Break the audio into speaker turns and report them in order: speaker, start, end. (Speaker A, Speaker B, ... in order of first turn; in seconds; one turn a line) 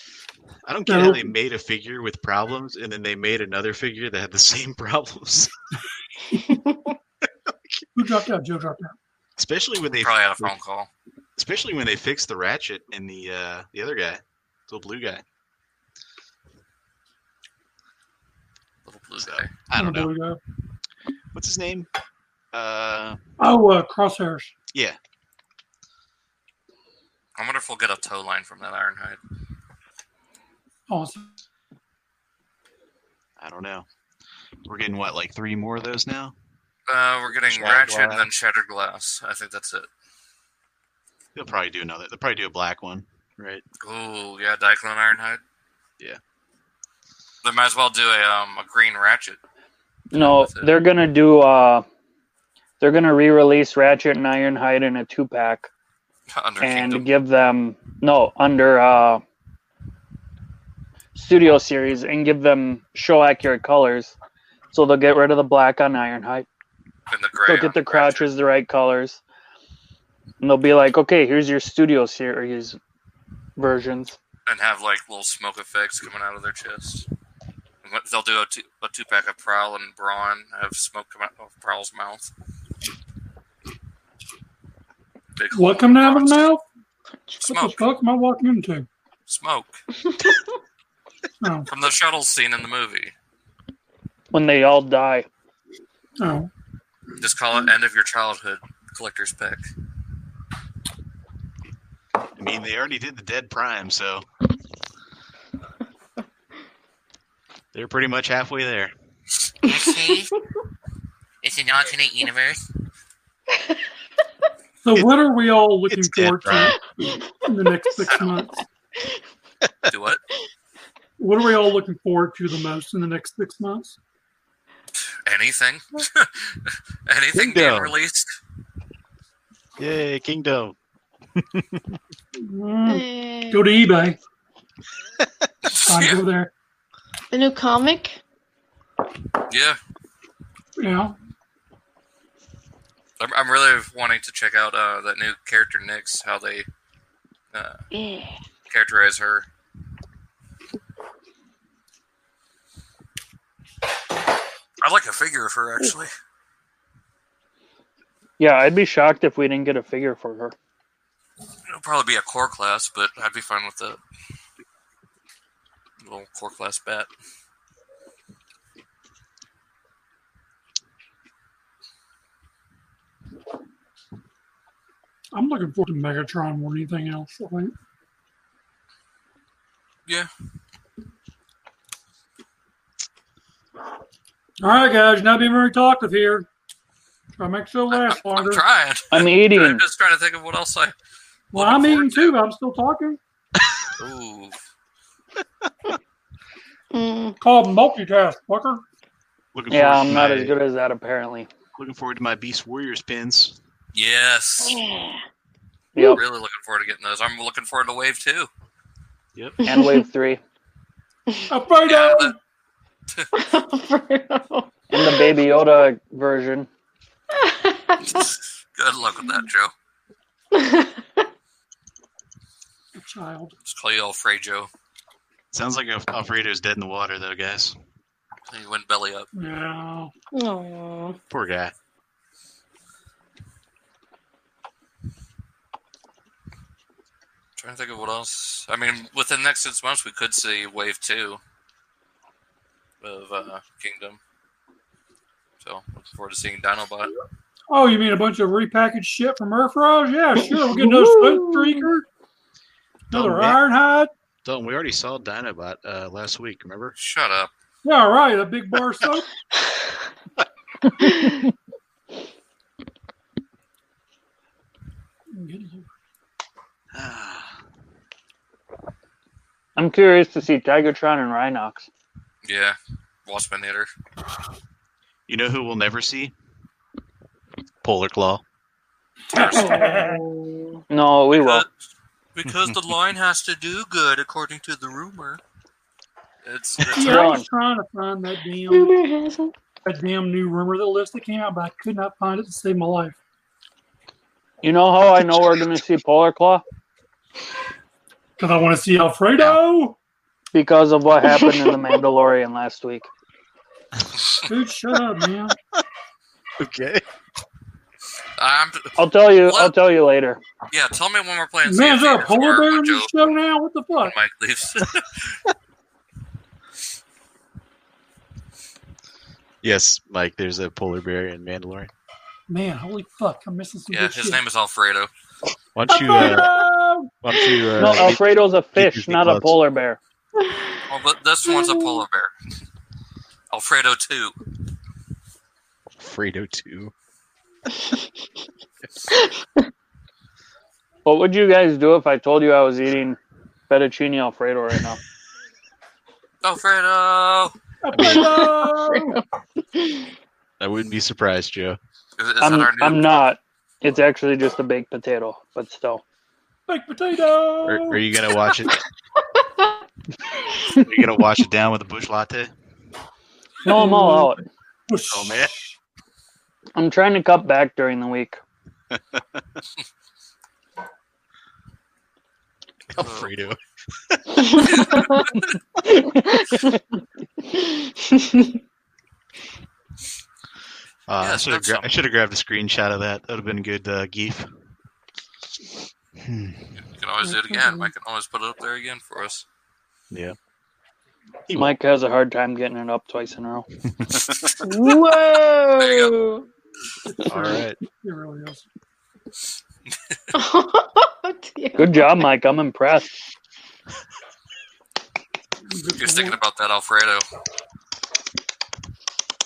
Speaker A: 0.7-5.5
Speaker B: 0.9-1.3
Speaker C: 6.5-6.9
Speaker B: 8.0-9.0
Speaker A: 9.4-10.5
Speaker D: 10.0-10.9
Speaker A: 11.4-15.2
Speaker D: 18.9-19.5
Speaker A: 19.2-20.1
Speaker B: 19.8-20.4
Speaker A: 21.3-21.9
Speaker A: 22.5-23.2
Speaker B: 23.4-24.5
Speaker D: 27.4-29.2
Speaker B: 30.9-31.4
Speaker A: 33.4-33.9
Speaker A: 34.6-36.3
Speaker D: 36.9-39.9
Speaker A: 37.5-38.3
Speaker A: 41.4-43.6
Speaker D: 43.8-45.4
Speaker D: 47.4-49.4
Speaker E: 50.1-51.9
Speaker D: 50.1-50.7
Speaker E: 52.8-55.7
Speaker D: 56.3-57.1
Speaker E: 56.6-59.2
Speaker E: 61.1-64.2
Speaker E: 64.7-66.5
Speaker D: 67.1-68.3
Speaker E: 67.5-69.2
Speaker E: 70.4-72.8
Speaker E: 73.6-74.2
Speaker D: 74.5-77.1
Speaker D: 77.8-82.3
Speaker D: 85.4-86.4
Speaker B: 85.5-86.6
Speaker B: 87.4-88.9
Speaker D: 87.4-87.9
Speaker D: 89.3-89.8
Speaker C: 90.1-90.4
Speaker B: 91.4-91.7
Speaker D: 91.7-93.1
Speaker E: 94.3-95.3
Speaker B: 96.2-96.5
Speaker D: 97.2-99.6
Speaker A: 102.4-104.2
Speaker A: 107.7-108.9
Speaker D: 109.6-110.4
Speaker C: 109.7-110.2
Speaker D: 111.4-112.6
Speaker B: 114.8-116.8
Speaker A: 115.9-116.8
Speaker B: 117.4-118.6
Speaker A: 119.6-119.9
Speaker D: 119.9-120.2
Speaker B: 121.2-124.0
Speaker D: 125.3-128.3
Speaker A: 127.3-128.0
Speaker A: 129.8-130.8
Speaker A: 131.3-132.0
Speaker B: 132.4-134.2
Speaker C: 132.9-133.7
Speaker D: 135.7-136.2
Speaker B: 135.8-136.5
Speaker C: 137.3-138.2
Speaker D: 139.5-139.8
Speaker B: 140.8-141.2
Speaker D: 143.2-146.7
Speaker D: 147.5-147.8
Speaker C: 147.9-148.3
Speaker D: 148.7-149.5
Speaker D: 154.8-156.1
Speaker E: 158.4-160.6
Speaker D: 161.7-164.0
Speaker D: 166.0-167.1
Speaker B: 175.3-177.7
Speaker B: 184.6-186.5
Speaker B: 187.4-188.6
Speaker D: 187.9-190.9
Speaker E: 189.1-189.8
Speaker D: 191.5-192.4
Speaker B: 191.5-193.2
Speaker A: 193.6-193.9
Speaker D: 194.0-194.6
Speaker C: 196.9-197.4
Speaker B: 197.4-198.8
Speaker A: 199.5-200.6
Speaker E: 199.7-201.5
Speaker A: 201.8-203.6
Speaker D: 203.9-204.8
Speaker C: 204.6-205.2
Speaker E: 205.9-206.2
Speaker D: 206.0-208.5
Speaker A: 209.3-209.6
Speaker C: 209.6-210.1
Speaker E: 209.6-210.4
Speaker B: 211.5-212.4
Speaker D: 211.9-212.3
Speaker C: 213.3-215.8
Speaker E: 214.9-216.7
Speaker C: 217.3-218.3
Speaker D: 218.0-219.7
Speaker C: 220.5-221.3
Speaker B: 222.9-223.5
Speaker D: 223.7-224.7
Speaker A: 225.5-227.8
Speaker D: 228.5-229.3
Speaker B: 229.3-230.1
Speaker C: 230.3-231.2
Speaker A: 231.3-231.7
Speaker D: 237.6-241.4
Speaker D: 243.0-244.2
Speaker D: 245.6-247.1
Speaker B: 247.7-252.1
Speaker C: 250.5-251.8
Speaker A: 253.1-253.6
Speaker B: 253.1-254.1
Speaker A: 254.4-256.9
Speaker D: 257.0-257.5
Speaker B: 257.8-259.3
Speaker C: 261.0-261.4
Speaker B: 265.3-265.9
Speaker A: 266.9-267.6
Speaker E: 269.8-271.9
Speaker D: 272.4-273.9
Speaker A: 275.3-276.3
Speaker A: 277.8-278.4
Speaker D: 279.3-279.7
Speaker B: 279.3-280.2
Speaker C: 279.4-280.8
Speaker E: 280.9-281.6
Speaker D: 281.3-281.7
Speaker D: 282.4-285.4
Speaker D: 286.4-287.3
Speaker B: 286.9-289.0
Speaker E: 287.0-287.4
Speaker C: 288.7-289.5
Speaker B: 289.9-293.2
Speaker E: 294.6-296.6
Speaker B: 298.4-300.0
Speaker E: 300.5-303.1
Speaker C: 301.3-301.8
Speaker A: 304.0-304.4
Speaker B: 304.5-305.6
Speaker A: 306.6-307.0
Speaker D: 308.4-309.8
Speaker E: 309.0-310.4
Speaker D: 310.7-313.3
Speaker B: 311.6-314.1
Speaker D: 314.0-315.4
Speaker A: 319.6-321.9
Speaker B: 322.5-324.4
Speaker D: 323.9-325.1
Speaker A: 325.8-326.5
Speaker C: 325.9-326.5
Speaker B: 325.9-327.1
Speaker A: 327.2-329.6
Speaker C: 327.4-327.9
Speaker E: 327.8-330.0
Speaker C: 330.4-330.8
Speaker D: 330.9-332.3
Speaker C: 331.5-332.0
Speaker D: 333.5-334.4
Speaker A: 336.0-336.9
Speaker C: 339.1-339.6
Speaker E: 341.1-345.0
Speaker D: 346.4-347.5
Speaker B: 347.8-349.2
Speaker A: 347.9-348.4
Speaker C: 348.0-349.2
Speaker C: 349.7-350.1
Speaker A: 350.6-351.8
Speaker D: 352.2-353.1
Speaker E: 352.4-356.0
Speaker B: 356.7-358.0
Speaker A: 357.7-358.8
Speaker C: 358.6-359.8
Speaker A: 360.7-362.5
Speaker E: 363.6-364.4
Speaker B: 363.7-364.4
Speaker B: 364.9-365.7
Speaker A: 365.1-365.6
Speaker E: 366.8-368.4
Speaker A: 368.9-369.4
Speaker A: 372.9-374.7
Speaker D: 373.0-373.4
Speaker C: 374.5-375.3
Speaker D: 374.5-375.5
Speaker C: 375.9-376.8
Speaker C: 377.5-378.6
Speaker A: 381.1-384.5
Speaker D: 381.2-381.9
Speaker A: 386.2-386.8
Speaker D: 386.8-389.4
Speaker B: 387.2-387.9
Speaker A: 390.1-390.4
Speaker A: 391.5-391.7
Speaker E: 391.6-393.7
Speaker A: 393.9-394.7
Speaker C: 394.6-396.5
Speaker D: 395.8-396.1
Speaker B: 397.1-398.7
Speaker A: 397.3-397.8
Speaker C: 400.3-402.2
Speaker E: 401.8-403.1
Speaker B: 405.7-406.4
Speaker D: 406.0-407.2